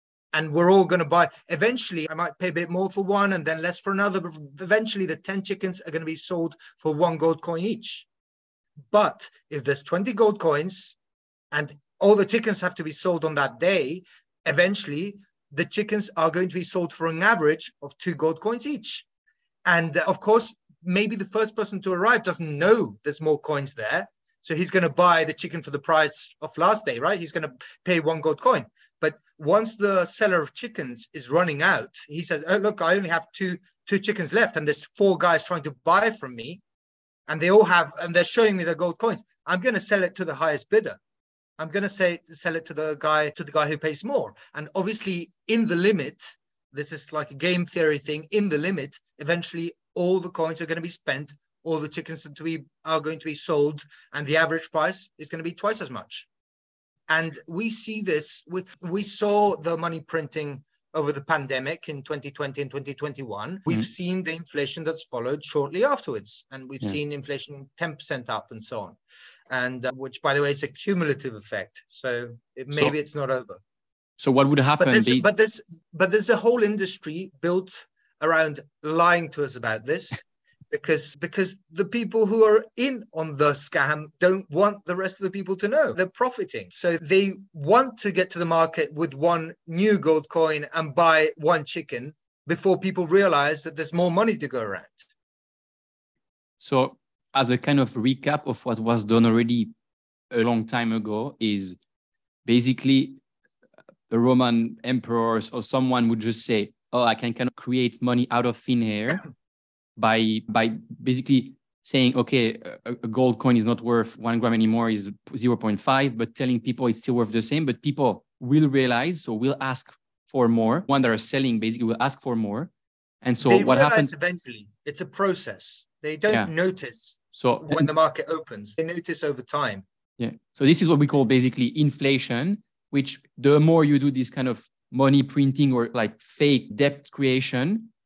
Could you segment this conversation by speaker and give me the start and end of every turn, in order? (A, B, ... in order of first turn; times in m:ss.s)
0:00.3-0:08.1 A
0:08.9-0:11.0 A
0:11.5-0:19.0 A
0:19.6-0:36.6 A
0:37.3-0:41.0 A
0:41.6-0:56.3 A
0:57.1-1:09.0 A
1:09.5-1:13.6 A
1:14.2-1:15.3 B
1:14.8-1:35.1 A
1:36.6-1:39.7 B
1:40.3-1:41.8 B
1:42.4-1:43.2 B
1:44.1-1:49.2 B
1:50.0-2:02.7 B
2:03.2-2:04.1 B
2:03.4-2:09.8 A
2:07.3-2:07.9 B
2:10.2-2:17.9 B